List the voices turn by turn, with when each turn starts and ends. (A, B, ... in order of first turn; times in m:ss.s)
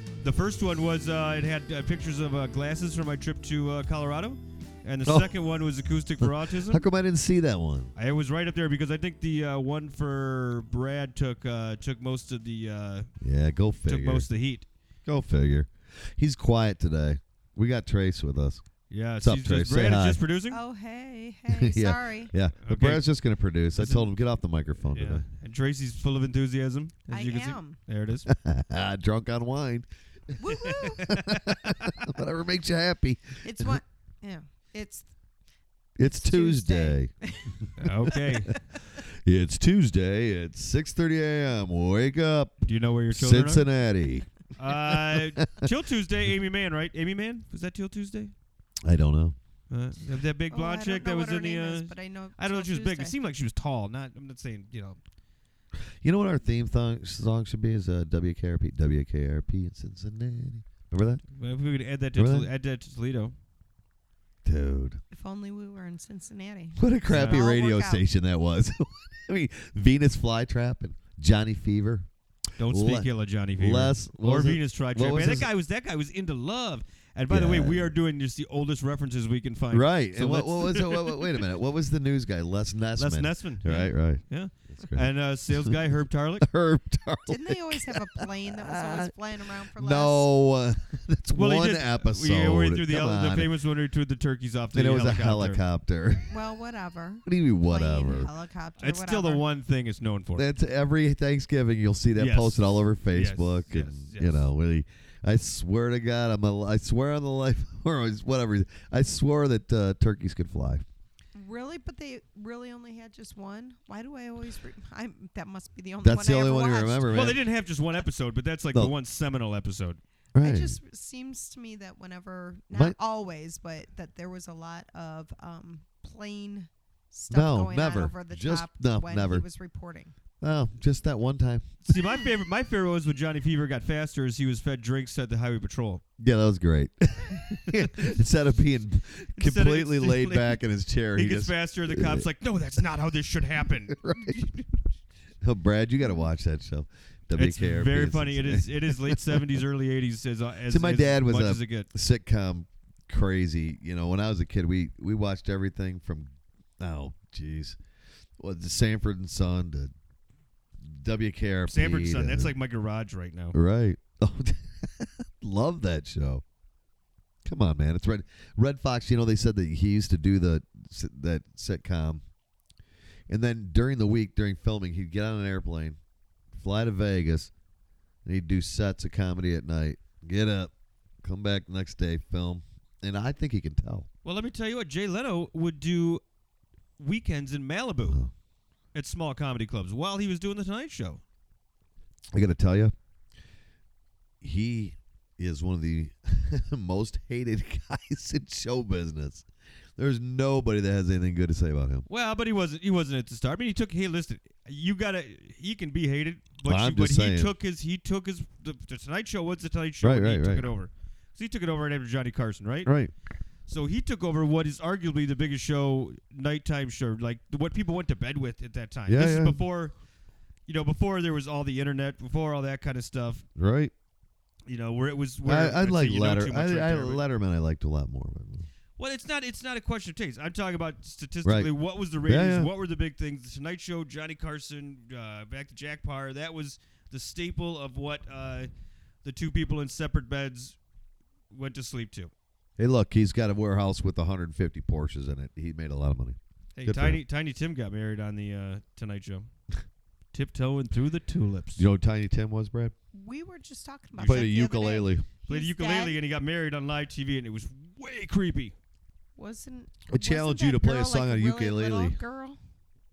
0:00.2-0:06.8 A
0:05.0-0:05.3 B
0:06.2-0:07.9 B
0:08.0-0:13.1 A
0:13.2-0:14.3 B
0:13.9-0:14.7 A
0:15.0-0:18.6 B
0:18.9-0:20.6 A
0:19.2-0:20.2 B
0:20.5-0:22.3 C
0:21.5-0:25.2 B
0:22.6-0:23.0 A
0:23.8-0:24.1 A
0:24.9-0:28.3 A
0:27.1-0:27.8 C
0:28.3-0:33.8 B
0:30.4-0:31.0 C
0:30.6-0:32.1 A
0:33.4-0:35.1 C
0:36.0-0:42.6 B
0:36.1-0:38.2 C
0:37.8-0:38.5 A
0:42.6-0:43.6 A
0:43.1-0:45.7 B
0:44.6-0:48.3 A
0:48.8-0:49.4 B
0:49.7-0:55.0 A
0:50.5-0:53.1 C
0:56.0-1:01.2 B
1:01.3-1:03.3 A
1:02.2-1:02.5 B
1:04.4-1:05.0 B
1:05.1-1:08.0 C
1:06.8-1:12.1 B
1:07.1-1:07.4 A
1:12.6-1:21.3 A
1:12.6-1:15.5 B
1:17.3-1:17.9 B
1:19.7-1:29.1 B
1:23.0-1:26.4 A
1:27.3-1:30.3 C
1:29.6-1:33.5 B
1:31.4-1:35.6 A
1:34.7-1:36.4 B
1:36.3-1:39.4 C
1:37.2-1:38.3 B
1:38.8-1:40.4 A
1:40.4-1:50.8 B
1:42.2-1:44.4 A
1:51.3-1:57.3 C
1:56.0-1:57.4 B
1:57.1-2:00.0 A
2:00.3-2:00.8 B
2:00.4-2:10.1 C
2:07.3-2:09.4 B
2:10.4-2:11.6 B
2:11.8-2:16.0 A
2:16.2-2:22.2 B
2:17.7-2:18.1 A
2:19.4-2:20.6 A
2:21.1-2:24.6 A
2:23.9-2:24.5 B
2:25.4-2:29.5 B
2:27.3-2:31.9 A
2:30.7-2:37.8 B
2:38.4-2:39.9 B
2:40.8-2:42.5 B
2:41.7-2:43.6 A
2:43.5-2:46.4 B
2:47.4-2:52.2 B
2:53.3-2:56.0 B
2:56.5-2:57.5 B
2:58.2-3:04.1 B
3:04.2-3:06.2 A
3:07.0-3:08.2 A
3:08.1-3:08.3 B
3:08.9-3:11.2 A
3:12.3-3:12.9 B
3:14.4-3:19.4 B
3:20.0-3:22.0 B
3:22.1-3:32.9 A
3:26.6-3:27.5 B
3:30.0-3:30.7 B
3:32.8-3:33.1 B
3:33.7-3:39.9 A
3:39.1-3:39.6 B
3:40.7-3:43.4 A
3:43.6-3:43.9 B
3:44.7-3:47.2 A
3:45.4-3:48.7 B
3:49.0-3:58.7 A
3:51.4-3:51.7 B
3:52.2-3:52.7 B
3:59.2-4:00.8 A
4:01.5-4:02.3 A
4:02.8-4:07.2 B
4:06.8-4:09.5 A
4:10.3-4:11.8 A
4:11.8-4:12.9 B
4:13.1-4:16.2 C
4:14.2-4:14.4 A
4:14.2-4:15.3 B
4:15.5-4:18.7 A
4:19.4-4:22.6 C
4:20.1-4:22.2 B